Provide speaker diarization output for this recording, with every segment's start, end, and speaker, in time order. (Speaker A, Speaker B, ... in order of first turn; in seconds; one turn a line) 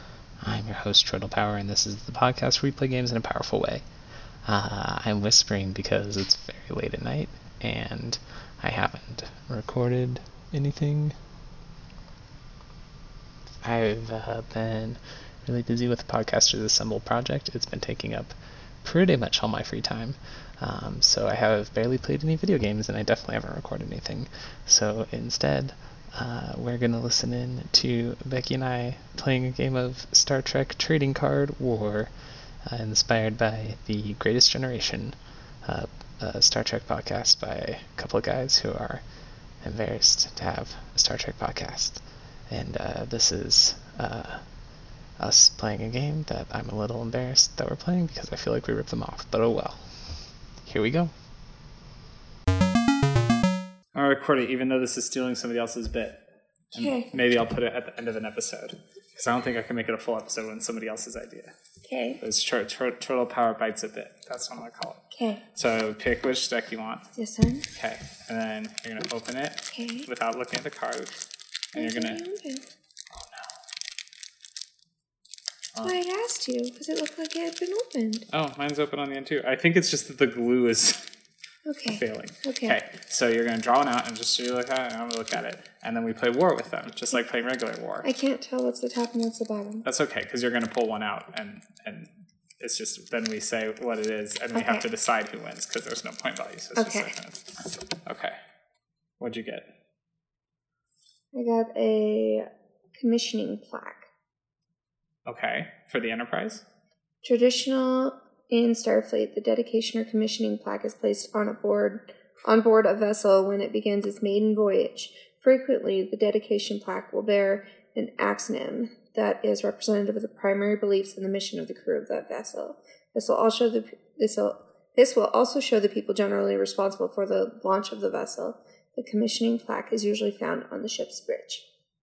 Speaker A: 0.4-3.8
Speaker B: 0.7-3.5
Speaker A: 4.4-11.1
Speaker B: 6.4-7.2
Speaker A: 13.6-32.1
Speaker B: 16.5-17.3
Speaker B: 17.8-18.3
Speaker B: 19.0-20.1
Speaker B: 21.7-21.9
Speaker B: 22.8-23.2
Speaker B: 23.8-24.2
Speaker B: 24.8-25.5
Speaker B: 26.3-26.9
Speaker B: 28.7-29.0
Speaker B: 30.3-31.1
Speaker A: 32.6-51.1
Speaker B: 53.9-56.2
Speaker B: 56.7-61.5
Speaker C: 56.8-57.1
Speaker C: 61.8-62.2
Speaker B: 62.2-65.0
Speaker C: 65.1-65.4
Speaker B: 65.5-67.0
Speaker C: 67.1-67.7
Speaker B: 67.7-71.1
Speaker C: 69.7-70.1
Speaker B: 71.7-72.2
Speaker C: 71.7-72.6
Speaker B: 73.1-73.4
Speaker C: 75.8-78.2
Speaker B: 78.3-81.0
Speaker C: 81.7-82.8
Speaker B: 81.9-88.0
Speaker C: 88.0-89.8
Speaker B: 89.8-92.1
Speaker B: 92.6-97.5
Speaker C: 94.5-94.9
Speaker C: 96.8-97.1
Speaker B: 98.0-98.3
Speaker B: 99.2-99.7
Speaker C: 101.3-104.1
Speaker B: 105.2-106.6
Speaker C: 107.2-131.6